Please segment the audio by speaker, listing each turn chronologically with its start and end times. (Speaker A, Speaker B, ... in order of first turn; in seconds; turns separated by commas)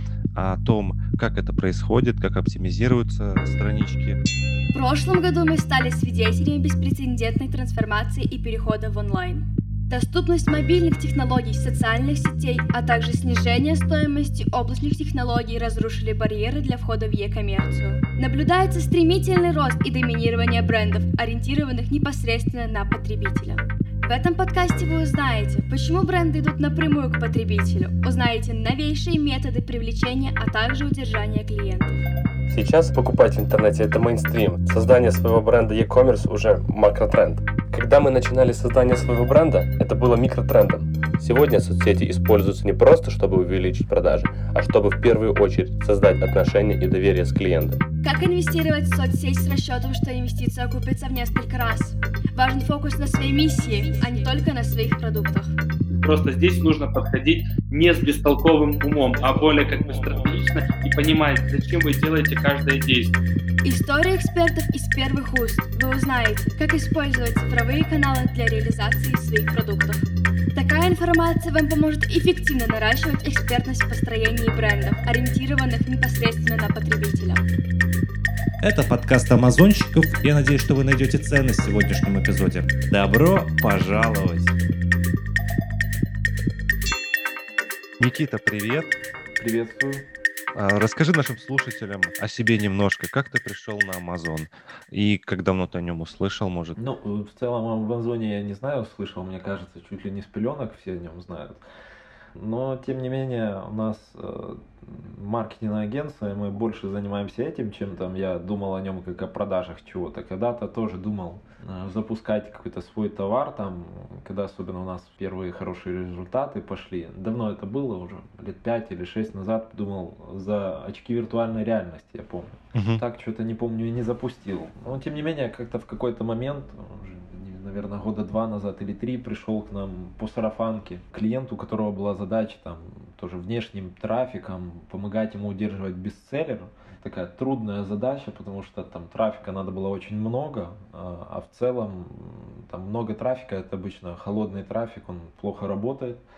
Speaker A: 0.3-4.2, Speaker B: 4.7-32.0, Speaker C: 32.5-47.8, Speaker B: 48.0-55.5, Speaker D: 56.0-63.1, Speaker B: 63.6-70.0, Speaker B: 70.5-77.4, Speaker A: 78.6-84.6, Speaker A: 88.0-88.9, Speaker E: 89.4-90.0, Speaker A: 90.5-96.8, Speaker E: 96.8-101.6, Speaker E: 102.3-146.2, Speaker A: 122.7-123.0